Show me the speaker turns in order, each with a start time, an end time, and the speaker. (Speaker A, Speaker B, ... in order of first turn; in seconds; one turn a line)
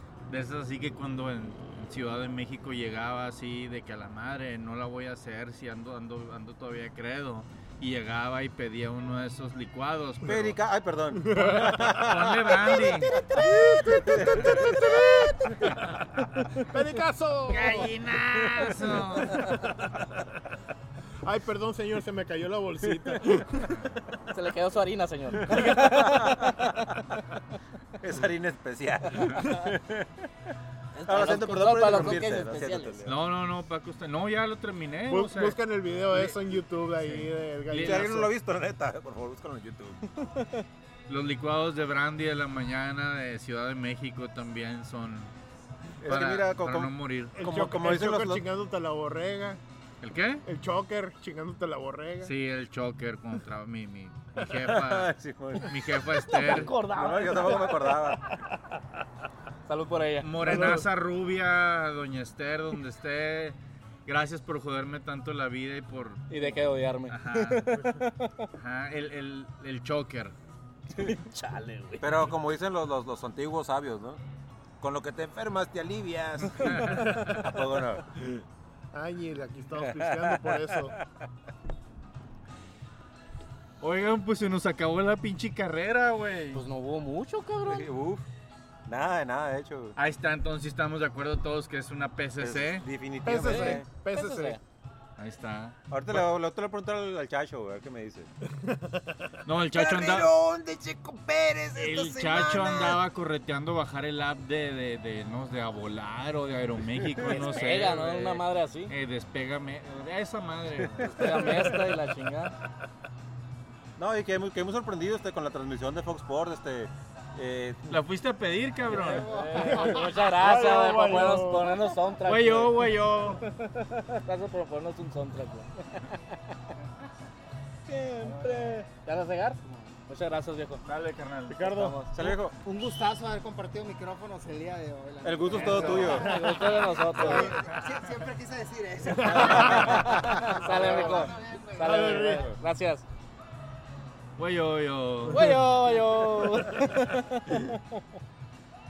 Speaker A: 0.3-10.6
Speaker B: 10.2-12.8
Speaker C: 11.1-12.1
Speaker A: 11.5-13.2
Speaker C: 12.7-15.9
Speaker B: 13.4-15.5
Speaker C: 16.6-20.0
Speaker A: 17.5-19.5
Speaker C: 21.2-23.8
Speaker B: 22.9-23.2
Speaker D: 24.3-27.1
Speaker B: 25.4-26.7
Speaker B: 28.0-30.5
Speaker D: 30.9-33.1
Speaker B: 31.0-33.1
Speaker A: 33.0-35.6
Speaker C: 35.1-38.3
Speaker A: 37.0-38.1
Speaker B: 37.8-40.0
Speaker D: 40.3-40.6
Speaker A: 41.1-45.3
Speaker B: 46.0-48.4
Speaker A: 46.0-47.4
Speaker C: 47.3-49.6
Speaker A: 50.0-50.4
Speaker C: 50.4-52.3
Speaker A: 52.2-56.7
Speaker B: 54.5-58.2
Speaker D: 56.3-58.1
Speaker D: 59.7-60.8
Speaker A: 60.2-66.3
Speaker C: 60.4-60.9
Speaker D: 66.3-68.5
Speaker A: 67.1-67.7
Speaker A: 68.5-70.3
Speaker D: 70.9-72.2
Speaker B: 72.0-74.2
Speaker B: 74.8-78.1
Speaker A: 76.6-77.1
Speaker C: 76.8-77.6
Speaker C: 78.9-81.0
Speaker B: 79.8-81.1
Speaker A: 83.8-86.6
Speaker D: 86.5-87.9
Speaker B: 87.6-88.3
Speaker B: 88.9-90.0
Speaker A: 90.0-92.8
Speaker B: 92.4-93.8
Speaker C: 93.2-94.6
Speaker D: 93.4-94.6
Speaker A: 95.2-96.2
Speaker B: 95.9-98.3
Speaker C: 98.6-99.2
Speaker A: 99.4-100.3
Speaker B: 99.7-103.0
Speaker A: 101.7-111.7
Speaker D: 107.2-108.9
Speaker B: 110.8-111.6
Speaker D: 111.1-112.5
Speaker B: 114.0-118.0
Speaker A: 117.9-119.3
Speaker E: 118.9-120.2
Speaker D: 118.9-126.2
Speaker C: 119.6-121.9
Speaker A: 122.2-123.4
Speaker D: 127.9-130.8
Speaker E: 128.2-128.8
Speaker A: 130.8-131.7
Speaker C: 131.5-132.0
Speaker D: 131.6-132.2
Speaker B: 132.1-132.6
Speaker E: 132.6-142.2
Speaker B: 135.2-136.3
Speaker D: 135.5-137.5
Speaker A: 135.6-136.2
Speaker C: 135.7-137.5
Speaker C: 139.1-141.3
Speaker D: 139.3-143.0
Speaker B: 139.7-140.0
Speaker C: 141.8-142.5
Speaker A: 144.4-145.6
Speaker D: 145.3-147.8